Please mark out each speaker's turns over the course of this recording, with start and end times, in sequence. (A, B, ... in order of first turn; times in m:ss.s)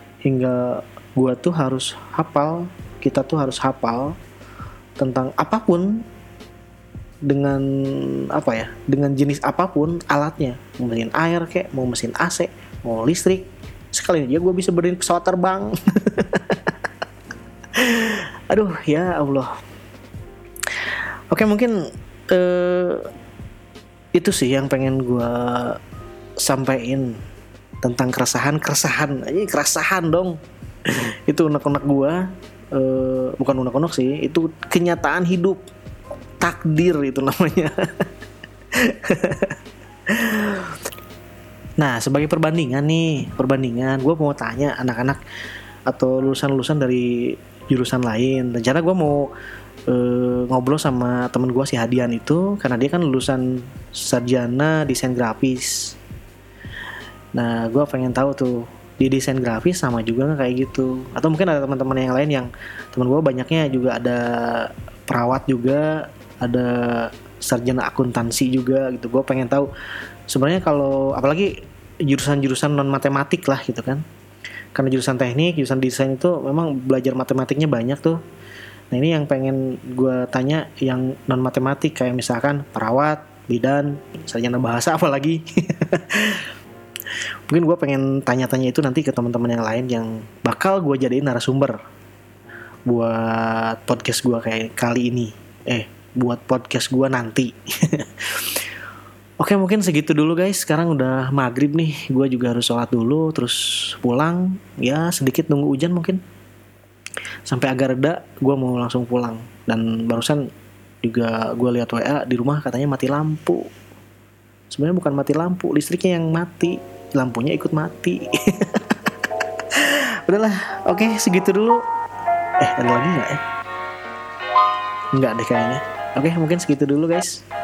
0:00.2-0:04.2 A
0:05.0-0:06.0 A
0:07.3-0:16.8 A
0:17.8-0:19.5 A
0:20.7-0:21.8 A
0:22.3-0:23.1 A
0:24.2-0:25.8 A
0:26.4-0:27.2 A
0:27.8-0:35.6 A
0:36.4-0:38.1 A
0:38.8-0:39.6 A
0:40.1-0:40.8 A
0:41.8-0:45.2 A
0:45.9-0:49.3 A
0:49.9-0:56.0 A
0:57.4-1:09.7 A
1:10.3-1:14.0 A
1:14.8-1:18.2 A
1:18.9-1:26.5 A
1:27.5-1:31.8 A
1:32.9-1:38.6 A
1:39.4-1:46.2 A
1:47.5-1:50.5 A
1:51.0-1:53.7 A
1:54.7-2:01.8 A
2:02.6-2:03.4 A
2:05.1-2:07.4 A